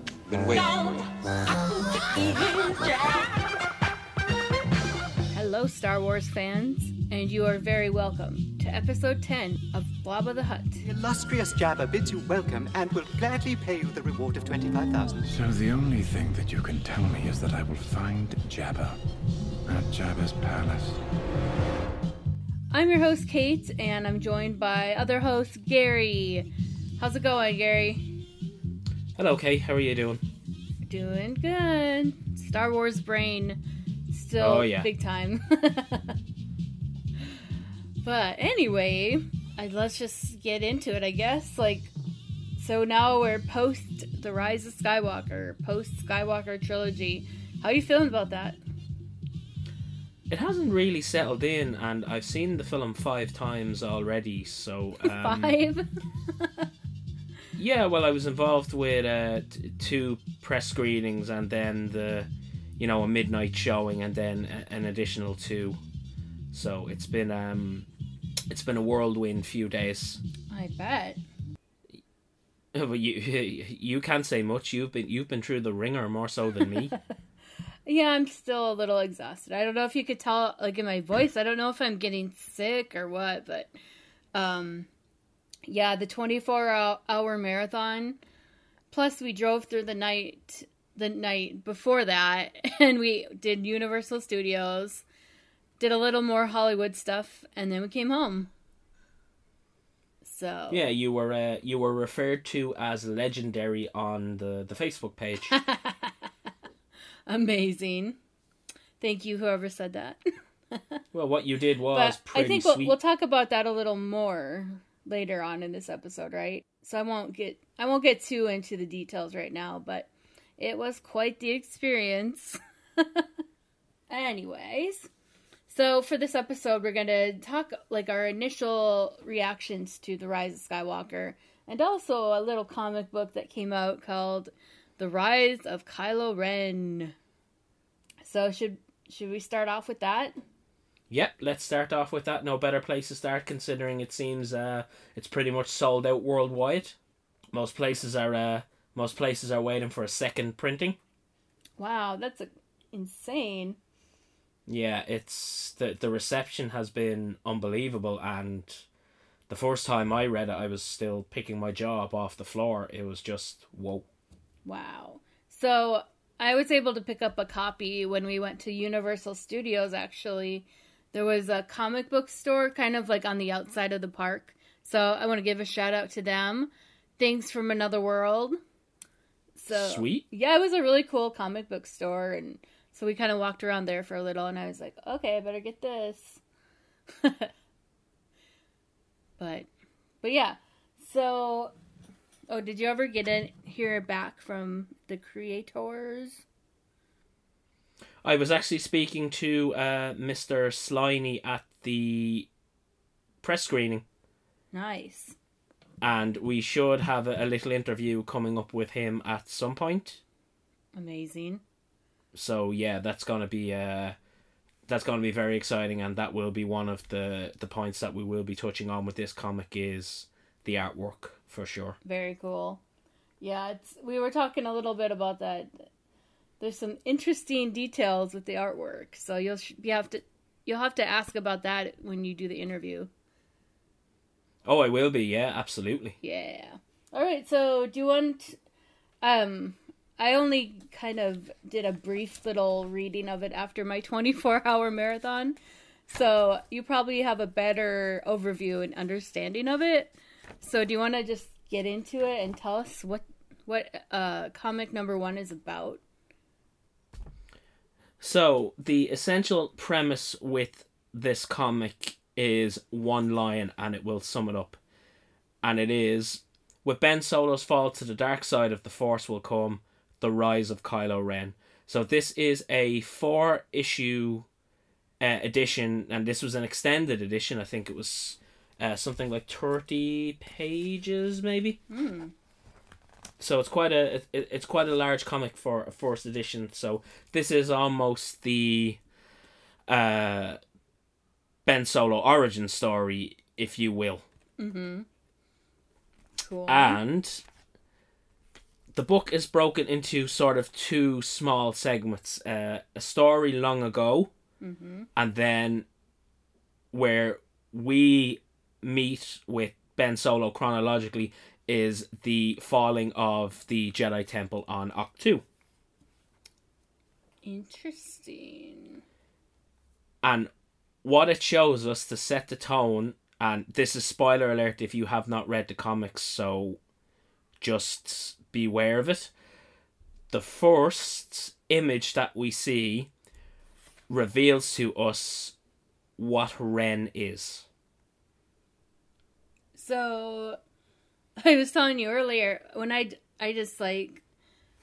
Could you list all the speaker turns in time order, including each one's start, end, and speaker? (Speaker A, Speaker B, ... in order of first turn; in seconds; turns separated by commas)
Speaker A: 0.3-0.8, Speaker B: 2.6-2.9, Speaker B: 5.3-10.8, Speaker A: 10.8-15.2, Speaker C: 15.3-19.0, Speaker C: 19.7-21.0, Speaker B: 22.7-26.5, Speaker B: 27.0-28.1, Speaker D: 29.2-30.2, Speaker B: 30.9-33.6, Speaker B: 34.1-36.2, Speaker D: 34.4-34.9, Speaker B: 38.0-41.9, Speaker B: 42.6-48.6, Speaker D: 50.3-55.5, Speaker B: 55.0-56.7, Speaker D: 57.6-65.8, Speaker D: 66.5-67.9, Speaker D: 68.5-70.2, Speaker B: 70.5-71.2, Speaker D: 72.7-76.9, Speaker B: 77.9-83.7, Speaker B: 84.3-84.9, Speaker B: 85.7-88.2, Speaker B: 88.9-95.0, Speaker B: 95.8-98.5, Speaker B: 100.2-100.9, Speaker D: 100.7-105.6, Speaker B: 105.5-106.3, Speaker B: 107.3-108.2, Speaker B: 109.0-110.2, Speaker B: 110.7-111.0, Speaker D: 111.1-113.0, Speaker B: 111.9-123.3, Speaker B: 124.1-125.1, Speaker B: 125.7-137.2, Speaker B: 138.2-140.4, Speaker D: 141.1-146.9, Speaker D: 147.5-151.0, Speaker B: 151.8-153.8, Speaker D: 154.7-158.8, Speaker D: 159.5-164.1, Speaker B: 164.7-178.6, Speaker B: 179.6-186.4, Speaker D: 179.7-180.2, Speaker B: 187.2-187.5, Speaker B: 189.4-189.7, Speaker B: 190.2-191.7, Speaker B: 192.5-196.4, Speaker D: 198.2-202.5, Speaker D: 203.4-204.0, Speaker B: 204.7-205.3, Speaker D: 206.0-210.2, Speaker B: 211.0-211.6, Speaker D: 212.3-214.2, Speaker D: 214.9-222.0, Speaker B: 222.1-222.8, Speaker B: 223.4-225.8, Speaker B: 226.6-233.1, Speaker D: 234.7-236.2, Speaker B: 236.2-238.6, Speaker B: 239.2-245.6, Speaker B: 246.1-256.0, Speaker D: 258.2-264.8, Speaker D: 265.6-274.5, Speaker D: 275.2-281.8, Speaker B: 281.9-282.3, Speaker D: 283.4-289.0, Speaker D: 289.9-290.6, Speaker D: 291.6-294.2, Speaker B: 294.6-295.1, Speaker B: 296.4-297.0, Speaker D: 296.7-297.4, Speaker D: 298.9-304.3, Speaker B: 304.6-305.1, Speaker D: 305.2-305.9, Speaker D: 306.9-315.4, Speaker B: 317.4-319.0, Speaker D: 320.2-320.5, Speaker D: 321.0-326.8, Speaker D: 327.6-329.3, Speaker D: 330.3-333.1, Speaker D: 334.1-335.6, Speaker D: 336.2-337.7, Speaker B: 339.8-340.6, Speaker B: 341.4-344.2